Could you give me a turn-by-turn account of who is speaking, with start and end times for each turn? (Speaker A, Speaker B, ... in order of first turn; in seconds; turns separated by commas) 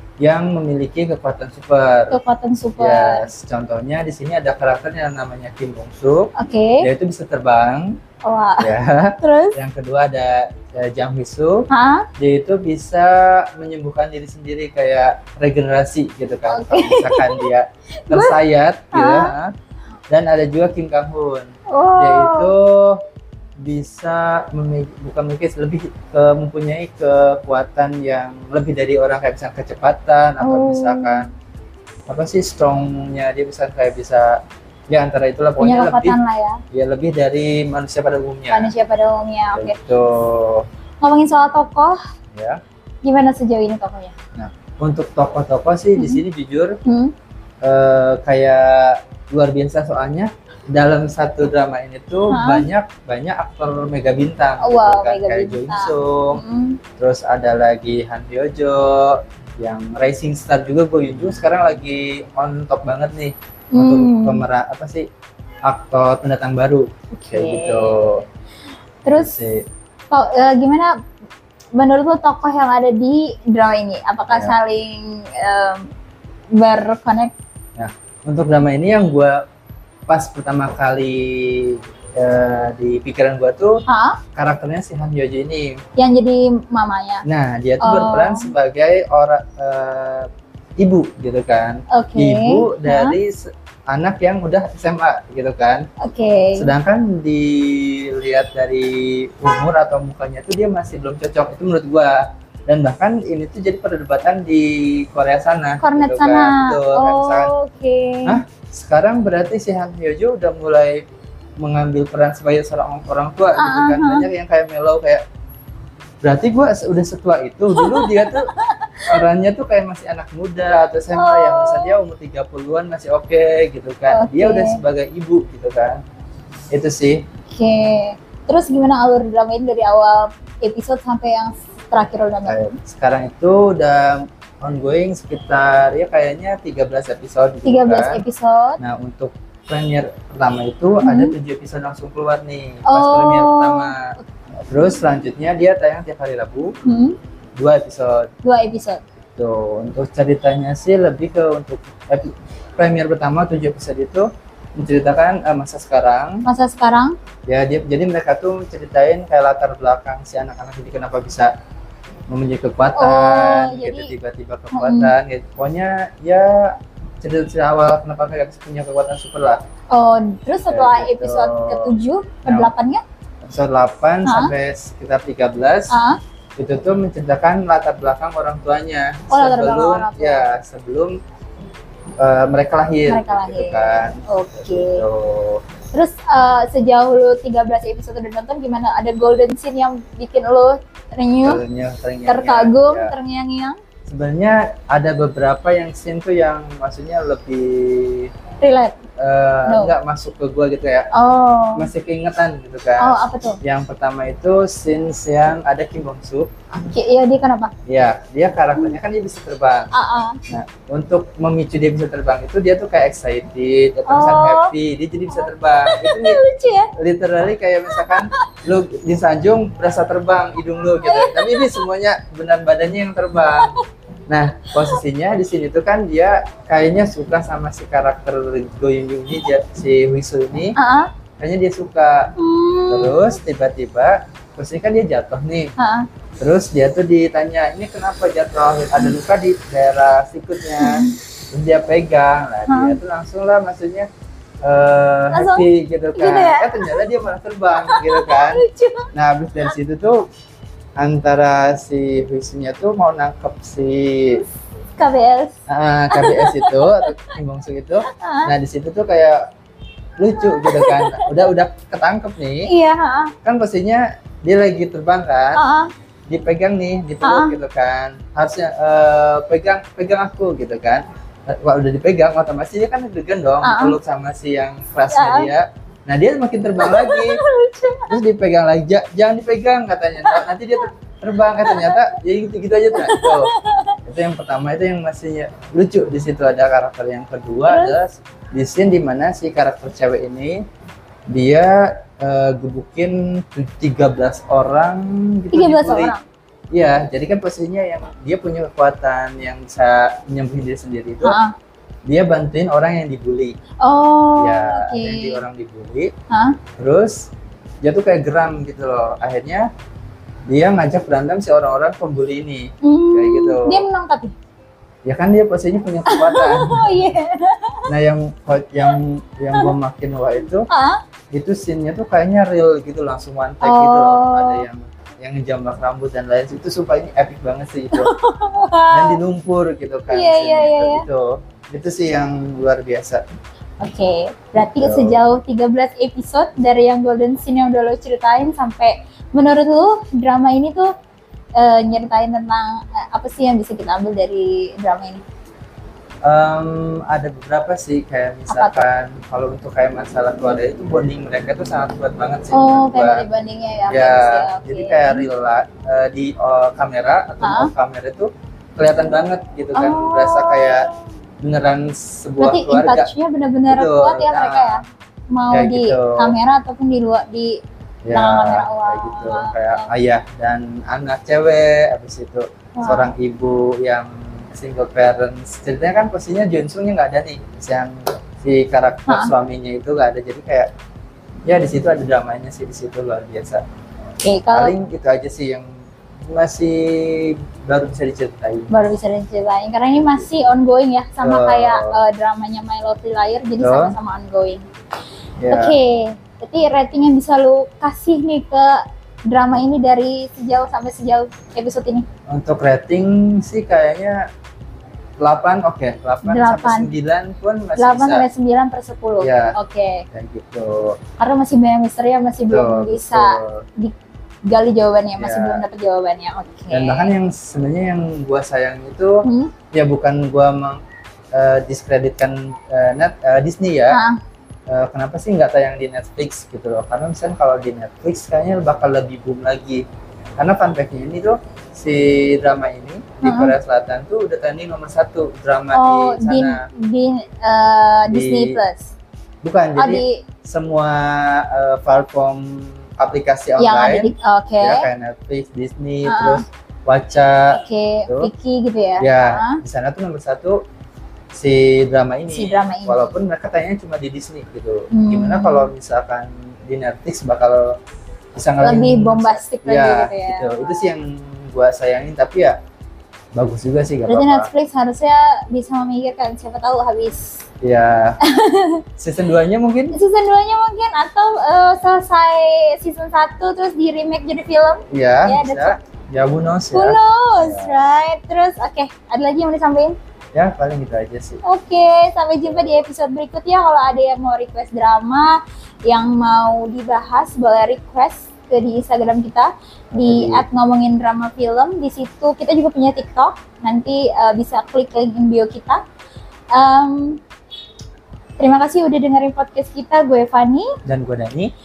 Speaker A: 0.2-2.2, Speaker B: 2.1-3.2, Speaker A: 2.8-8.0, Speaker B: 6.4-6.9, Speaker B: 8.2-9.6, Speaker A: 8.6-19.5, Speaker B: 11.7-12.1, Speaker B: 16.5-17.5, Speaker B: 18.1-18.4, Speaker B: 18.9-19.3, Speaker A: 20.1-23.0, Speaker B: 21.7-22.5, Speaker A: 23.6-31.3, Speaker B: 30.4-31.2, Speaker A: 32.1-36.2, Speaker B: 35.6-36.6, Speaker A: 36.7-38.7, Speaker B: 38.5-39.8, Speaker A: 39.5-40.7, Speaker B: 41.0-42.0, Speaker A: 42.3-42.6, Speaker B: 43.0-44.1, Speaker A: 44.4-46.8, Speaker B: 46.0-46.2, Speaker B: 46.8-47.1, Speaker A: 47.6-56.4, Speaker B: 52.3-52.7, Speaker B: 54.6-56.8, Speaker A: 57.0-65.0, Speaker B: 63.7-64.4, Speaker A: 65.7-68.2, Speaker B: 67.1-68.0, Speaker B: 69.0-69.4, Speaker A: 69.1-69.7, Speaker B: 70.1-70.9, Speaker B: 71.8-75.9, Speaker A: 74.3-74.6, Speaker B: 76.5-77.3, Speaker A: 77.8-79.4, Speaker A: 80.1-83.8, Speaker B: 83.9-84.2, Speaker A: 84.3-85.8, Speaker B: 86.0-87.2, Speaker A: 87.3-90.3, Speaker B: 87.8-88.5, Speaker A: 90.8-93.4, Speaker B: 91.9-93.2, Speaker A: 93.9-95.8, Speaker B: 96.0-96.7, Speaker A: 96.5-107.5, Speaker B: 105.8-108.4, Speaker A: 108.3-111.0, Speaker A: 111.6-115.2, Speaker B: 113.6-114.3, Speaker A: 116.2-118.5, Speaker B: 117.7-119.2, Speaker A: 119.1-126.0, Speaker B: 121.1-122.0, Speaker B: 124.1-124.8, Speaker A: 126.7-127.2, Speaker B: 127.5-132.6, Speaker A: 132.5-138.2, Speaker B: 137.6-138.8, Speaker A: 138.8-144.0, Speaker B: 141.0-141.3, Speaker B: 142.8-143.9, Speaker A: 144.7-146.7, Speaker B: 146.8-147.2, Speaker A: 147.6-148.3, Speaker B: 148.4-149.0, Speaker A: 149.4-154.2, Speaker A: 154.8-156.4, Speaker B: 156.4-157.1, Speaker A: 157.5-161.5, Speaker A: 162.3-169.6, Speaker B: 162.9-164.1, Speaker B: 164.7-165.1, Speaker B: 169.9-173.0, Speaker A: 170.7-171.9, Speaker A: 172.4-172.7, Speaker A: 173.4-175.9, Speaker B: 174.2-174.5, Speaker B: 175.9-176.2, Speaker A: 176.6-181.2, Speaker B: 179.3-180.5, Speaker A: 182.2-185.6, Speaker B: 183.1-185.0, Speaker B: 185.9-191.6, Speaker A: 191.4-193.1, Speaker B: 192.3-193.8, Speaker A: 194.1-198.3, Speaker B: 198.6-199.0, Speaker A: 199.2-201.1, Speaker B: 199.7-199.9, Speaker B: 201.1-201.9, Speaker A: 201.8-206.5, Speaker B: 203.0-203.6, Speaker B: 206.8-207.7, Speaker A: 207.9-209.9, Speaker B: 209.9-210.4, Speaker A: 210.5-216.4, Speaker B: 214.1-214.7, Speaker B: 215.3-216.9, Speaker A: 217.0-223.7, Speaker B: 217.9-218.4, Speaker B: 221.0-221.8, Speaker A: 224.3-230.8, Speaker B: 230.8-231.1, Speaker A: 231.4-232.3, Speaker B: 232.4-233.3, Speaker A: 232.9-235.7, Speaker B: 235.8-236.1, Speaker A: 236.4-244.1, Speaker B: 240.8-241.1, Speaker B: 242.7-243.0, Speaker A: 244.6-250.3, Speaker B: 245.3-247.1, Speaker B: 247.8-249.1, Speaker A: 251.0-254.4, Speaker B: 255.0-255.6, Speaker A: 255.7-259.4, Speaker B: 256.1-257.3, Speaker B: 258.1-258.5, Speaker A: 260.2-262.7, Speaker B: 260.4-261.3, Speaker B: 262.6-263.3, Speaker A: 263.4-265.6, Speaker B: 265.6-265.9, Speaker A: 266.3-277.4, Speaker B: 267.2-267.6, Speaker B: 273.6-274.0, Speaker B: 275.1-275.5, Speaker B: 276.8-278.2, Speaker A: 278.1-283.5, Speaker B: 281.6-282.0, Speaker B: 282.9-283.9, Speaker A: 284.1-290.6, Speaker B: 287.7-288.0, Speaker A: 291.3-296.1, Speaker B: 295.5-296.2, Speaker A: 296.7-301.4, Speaker B: 301.2-301.5, Speaker A: 302.1-303.6, Speaker B: 303.8-305.4, Speaker A: 304.4-306.1, Speaker B: 306.3-306.6, Speaker A: 306.8-307.3, Speaker A: 307.8-309.7, Speaker A: 310.5-313.8, Speaker B: 312.8-314.3, Speaker A: 315.1-316.9, Speaker B: 316.1-317.8, Speaker A: 317.9-320.6, Speaker B: 320.7-321.0, Speaker A: 321.3-328.1, Speaker B: 323.6-324.6, Speaker B: 327.9-329.2, Speaker A: 328.9-333.2, Speaker B: 330.1-331.1, Speaker B: 333.8-340.9, Speaker A: 334.8-335.2, Speaker B: 341.6-345.2, Speaker A: 346.2-353.2, Speaker B: 348.5-348.8, Speaker B: 352.5-355.3, Speaker A: 353.9-360.9, Speaker B: 357.4-357.7, Speaker B: 359.8-361.0, Speaker A: 361.4-363.1, Speaker B: 362.4-367.6, Speaker A: 363.7-364.8, Speaker A: 365.5-366.3, Speaker A: 368.1-380.7, Speaker B: 368.1-369.9, Speaker B: 372.8-373.1, Speaker B: 379.1-379.3, Speaker A: 381.4-383.6, Speaker B: 384.2-384.7, Speaker A: 384.5-385.7, Speaker A: 386.3-388.7, Speaker B: 388.7-394.6, Speaker A: 391.2-392.0, Speaker A: 393.6-393.9, Speaker A: 395.4-395.8, Speaker B: 395.5-402.1, Speaker A: 402.3-404.2, Speaker A: 405.2-408.2, Speaker B: 406.2-406.9, Speaker B: 407.8-410.1, Speaker A: 409.2-409.6, Speaker A: 410.1-411.0, Speaker B: 411.2-413.9, Speaker A: 412.5-413.6, Speaker B: 414.5-417.1, Speaker A: 415.2-415.6, Speaker A: 416.7-420.8, Speaker B: 419.2-419.5, Speaker A: 421.3-424.0, Speaker B: 423.9-424.2, Speaker A: 424.7-429.8, Speaker A: 430.4-436.6, Speaker B: 433.2-433.6, Speaker B: 435.7-438.9, Speaker A: 438.1-438.5, Speaker A: 439.4-448.3, Speaker B: 439.8-440.2, Speaker B: 443.6-444.9, Speaker B: 446.1-446.4, Speaker B: 447.5-449.6, Speaker A: 449.0-450.6, Speaker A: 451.3-457.7, Speaker B: 452.3-453.1, Speaker B: 454.9-455.7, Speaker A: 458.3-462.6, Speaker B: 458.6-460.9, Speaker A: 463.3-464.5, Speaker B: 464.1-467.4, Speaker A: 467.6-468.2, Speaker B: 468.2-468.8, Speaker A: 469.0-469.9, Speaker B: 469.9-475.8, Speaker A: 474.9-477.8, Speaker B: 476.7-479.9, Speaker A: 480.3-481.4, Speaker B: 481.4-495.8, Speaker A: 482.4-482.8, Speaker A: 489.9-490.4, Speaker B: 496.5-497.2, Speaker B: 498.4-500.7, Speaker A: 500.9-501.5